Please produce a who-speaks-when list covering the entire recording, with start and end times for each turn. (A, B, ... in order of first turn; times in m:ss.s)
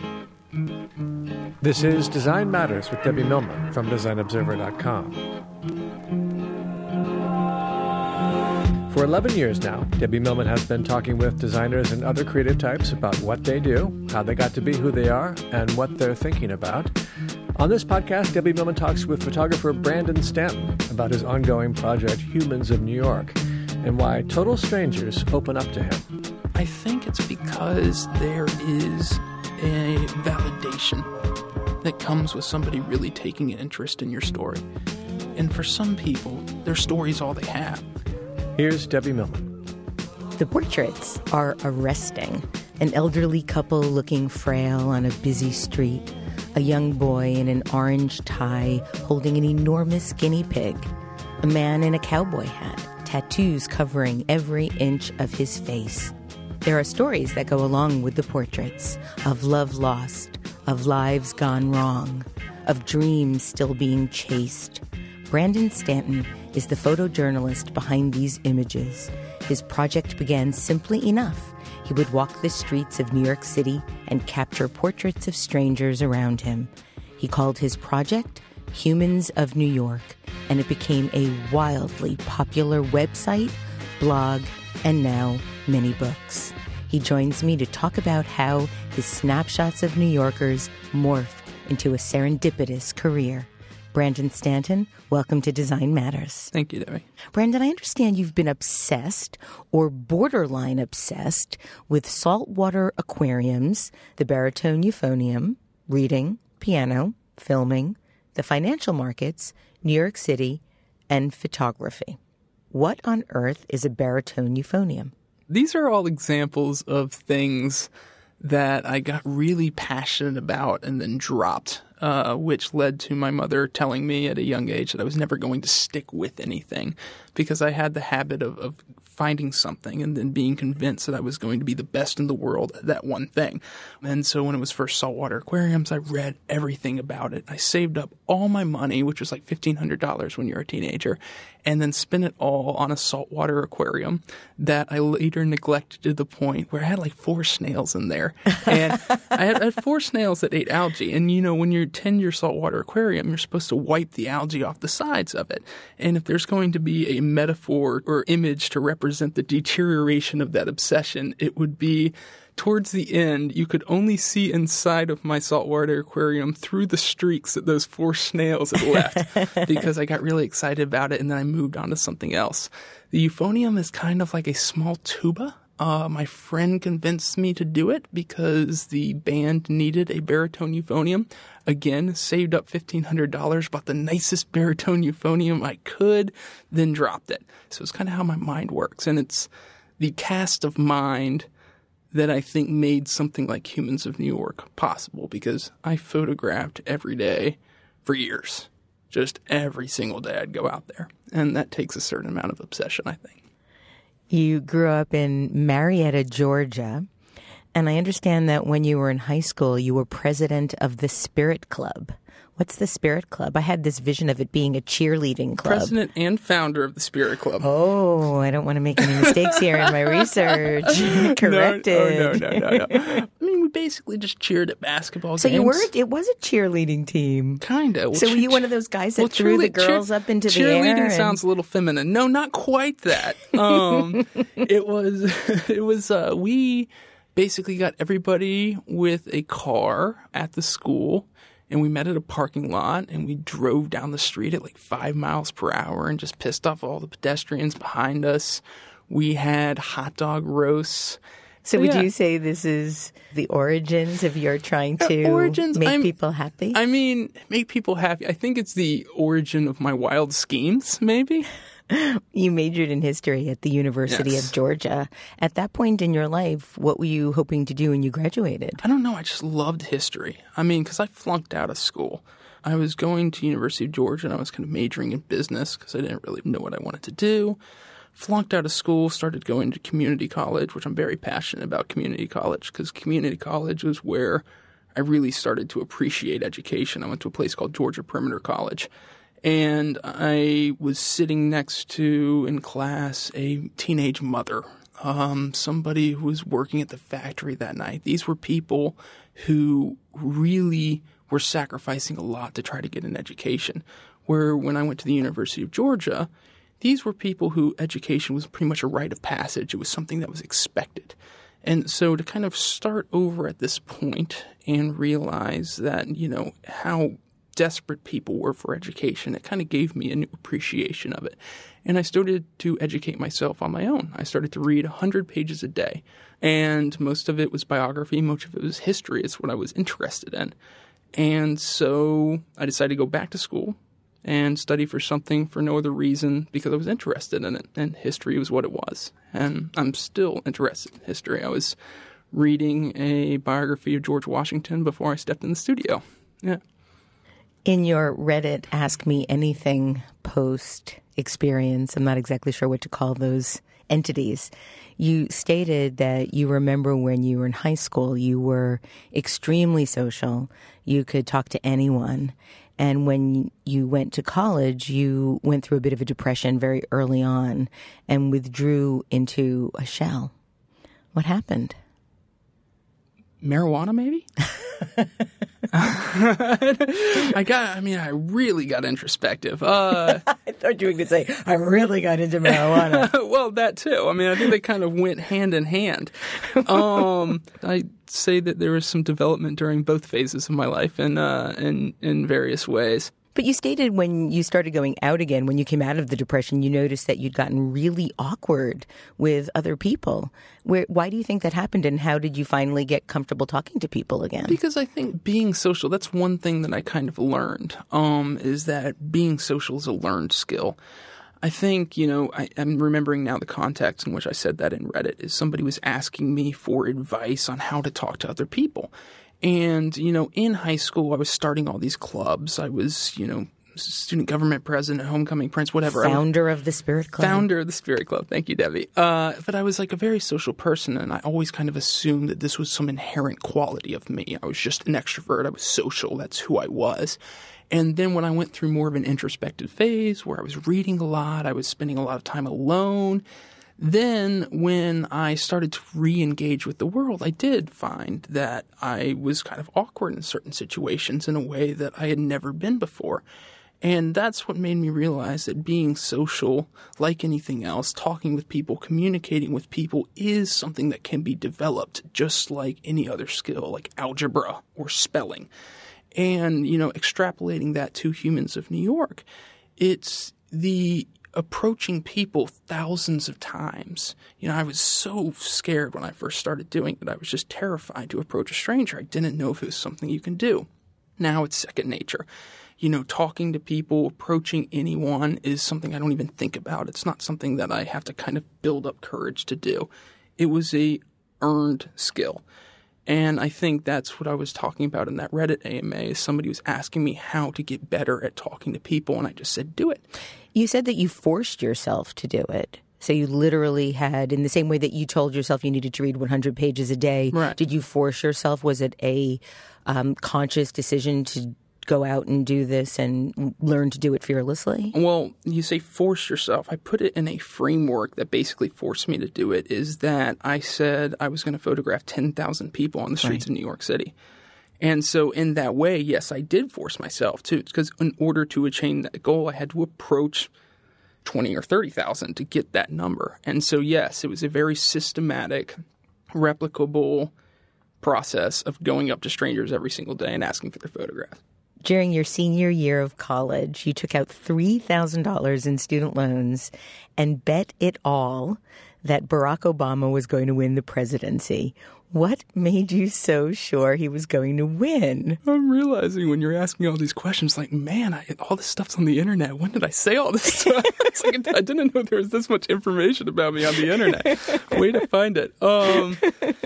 0:01.6-0:05.2 A
0:08.9-0:16.9 A
0:17.6-0:26.1 A
0:26.6-0:31.1 B
0:31.8-0:34.6 B
0:35.4-0:37.8 B
0:38.6-0:39.5 A
0:40.4-1:36.5 C
1:36.5-1:37.1 B
1:37.3-1:52.2 C
1:52.7-1:55.1 C
1:55.5-3:11.5 B
2:49.2-2:49.8 C
3:12.1-3:23.4 B
3:24.3-3:27.1 C
3:27.7-3:35.9 C
3:35.6-3:37.7 B
3:37.6-3:43.2 C
3:39.0-3:45.9 B
3:45.4-3:51.4 C
3:47.6-4:11.2 B
4:11.6-4:16.8 C
4:11.8-4:12.1 B
4:15.0-4:16.1 B
4:16.7-4:21.5 B
4:21.9-4:28.8 C
4:24.1-4:24.5 B
4:28.8-4:37.6 B
4:38.2-4:44.4 B
4:45.0-4:48.9 B
4:49.4-5:06.3 B
5:06.8-5:30.5 B
5:31.2-5:41.8 B
5:42.3-5:46.6 B
5:47.7-6:10.3 C
6:11.1-6:11.8 C
6:13.4-6:14.2 B
6:15.7-6:20.2 B
6:20.0-6:23.1 C
6:22.4-6:33.1 B
6:26.5-6:27.1 C
6:33.4-6:44.6 C
6:44.5-6:50.8 B
6:51.4-7:06.2 B
7:05.9-7:07.5 C
7:07.2-7:17.2 B
7:17.7-7:23.2 B
7:23.8-7:33.2 B
7:33.8-7:45.5 B
7:46.1-7:49.2 B
7:49.8-8:00.7 B
8:01.2-8:02.2 B
8:02.8-8:12.4 B
8:13.1-8:20.0 B
8:20.5-8:35.0 C
8:27.3-8:27.6 B
8:34.9-8:44.1 B
8:44.8-8:50.5 B
8:51.2-8:55.8 B
8:56.3-8:57.3 B
8:58.0-9:01.4 B
9:01.8-9:15.4 C
9:15.4-9:26.3 B